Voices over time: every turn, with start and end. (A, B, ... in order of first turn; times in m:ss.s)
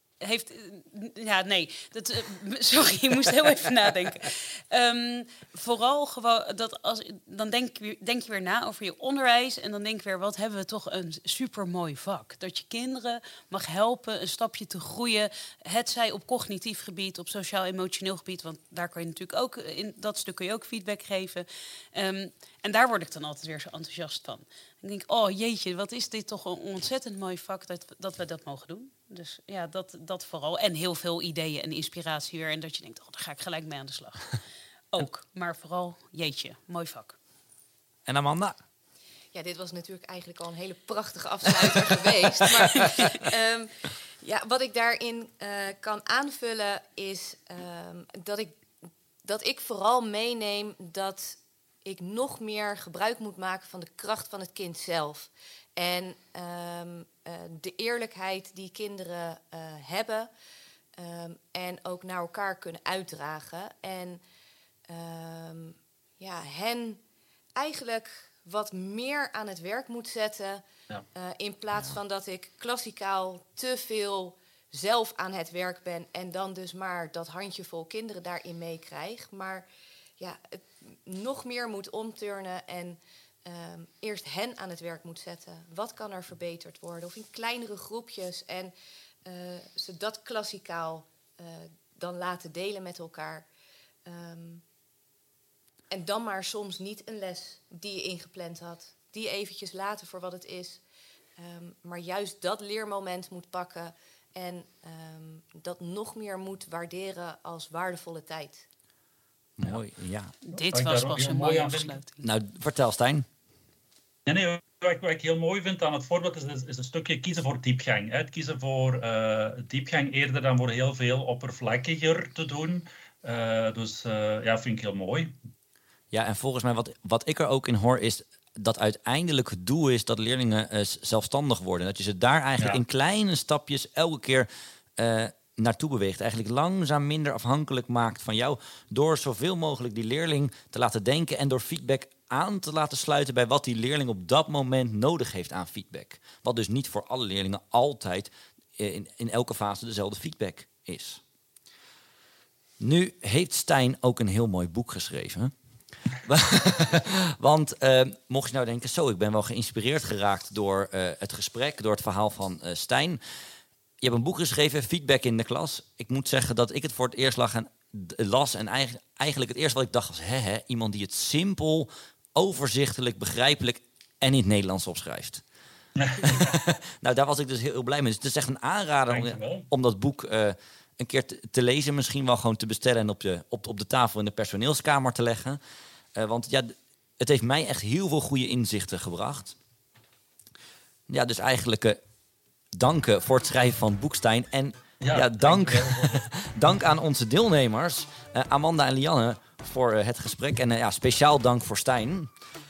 0:00.2-0:34.4 A
0:34.9-0:37.2 A
0:38.1-0:38.6 B
0:39.3-0:48.6 C
0:49.2-1:00.3 C
1:01.0-1:04.2 C
1:04.9-1:07.0 C
1:07.6-1:19.7 C
1:20.2-1:28.7 C
1:29.2-1:33.5 C
1:34.0-1:34.6 C
1:35.9-1:40.8 C
1:41.4-1:48.7 C
1:49.6-1:50.4 B
1:50.4-1:52.2 A
1:50.6-1:52.0 D
1:52.2-1:53.3 B
1:54.3-2:05.4 D
2:06.1-2:31.2 B
2:32.8-2:35.5 B
2:36.1-2:43.2 B
2:44.0-2:55.4 B
2:56.0-2:56.6 D
2:56.2-3:05.6 B
2:59.1-2:59.7 D
3:06.2-3:09.6 B
3:11.1-3:12.0 B
3:12.7-3:22.3 B
3:15.0-3:16.2 D